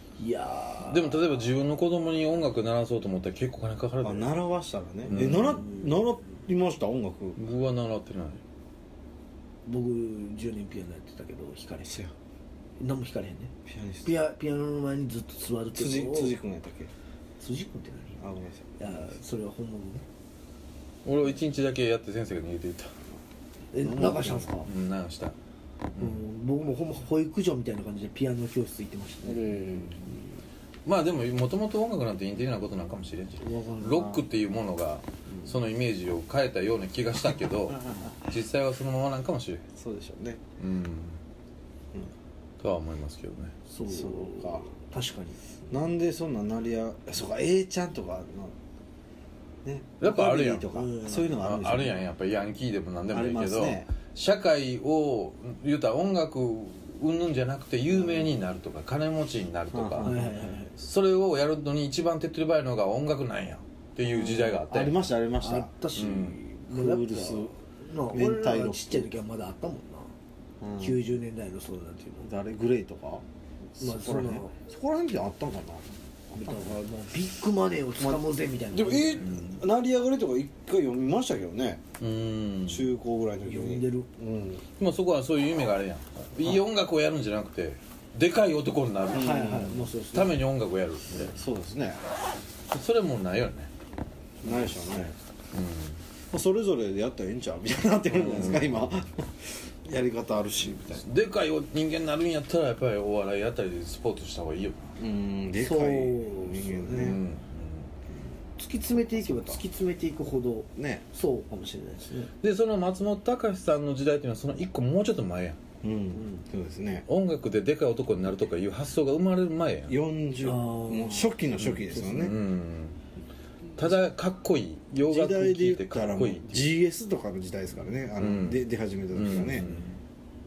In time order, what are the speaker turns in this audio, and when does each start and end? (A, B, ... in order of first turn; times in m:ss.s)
0:00.2-0:01.4 A
0:00.8-0:04.4 B
0:04.0-0:07.4 C
0:05.1-0:05.7 B
0:05.1-0:06.4 A
0:07.4-0:08.4 B
0:09.6-0:12.0 A
0:11.8-0:12.1 C
0:12.8-0:13.5 A
0:13.6-0:14.1 C
0:14.0-0:16.3 A
0:15.8-0:16.9 C
0:17.4-0:18.2 A
0:18.2-0:19.0 C
0:18.8-0:20.0 A
0:21.0-0:22.9 B
0:23.7-0:24.7 A
0:23.8-0:24.5 C
0:24.6-0:25.4 B
0:26.0-0:26.2 B
0:26.0-0:30.3 A
0:29.2-0:30.0 C
0:30.8-0:39.6 B
0:33.4-0:34.2 A
0:39.8-0:40.4 C
0:40.6-0:41.2 B
0:42.6-0:43.6 B
0:43.7-0:45.4 A
0:43.9-0:44.7 C
0:45.7-0:48.5 C
0:49.6-0:52.0 C
0:50.0-1:00.1 B
0:50.7-0:51.8 A
0:53.1-0:53.9 C
0:58.0-0:58.2 C
0:59.7-1:00.4 C
1:00.0-1:00.8 A
1:00.8-1:05.1 B
1:04.0-1:05.7 C
1:05.4-1:10.1 A
1:06.0-1:06.4 B
1:06.7-1:07.5 C
1:08.1-1:09.1 C
1:10.6-1:11.0 C
1:10.8-1:12.3 A
1:12.2-1:13.2 C
1:13.8-1:16.8 C
1:13.8-1:14.5 A
1:16.3-1:19.3 A
1:18.7-1:21.8 C
1:19.2-1:19.6 B
1:22.0-1:22.9 B
1:22.7-1:24.6 C
1:23.4-1:24.1 A
1:24.8-1:31.4 B
1:29.1-1:30.4 A
1:29.1-1:29.7 C
1:31.2-1:32.0 C
1:32.7-1:33.7 B
1:34.4-1:35.1 C
1:34.4-1:35.1 A
1:35.5-1:36.0 B
1:36.3-1:41.0 C
1:38.1-1:38.9 B
1:40.9-1:44.9 B
1:45.0-1:47.2 C
1:45.6-1:47.2 A
1:46.9-1:47.9 B
1:48.5-1:52.3 A
1:49.0-1:49.6 C
1:50.8-1:51.0 C
1:52.4-1:55.6 B
1:55.8-1:57.0 C
1:56.1-1:56.4 A
1:57.1-2:00.0 B
1:59.9-2:02.4 C
2:00.4-2:01.4 A
2:01.6-2:03.0 B
2:03.8-2:06.7 B
2:05.1-2:09.7 C
2:08.2-2:10.0 B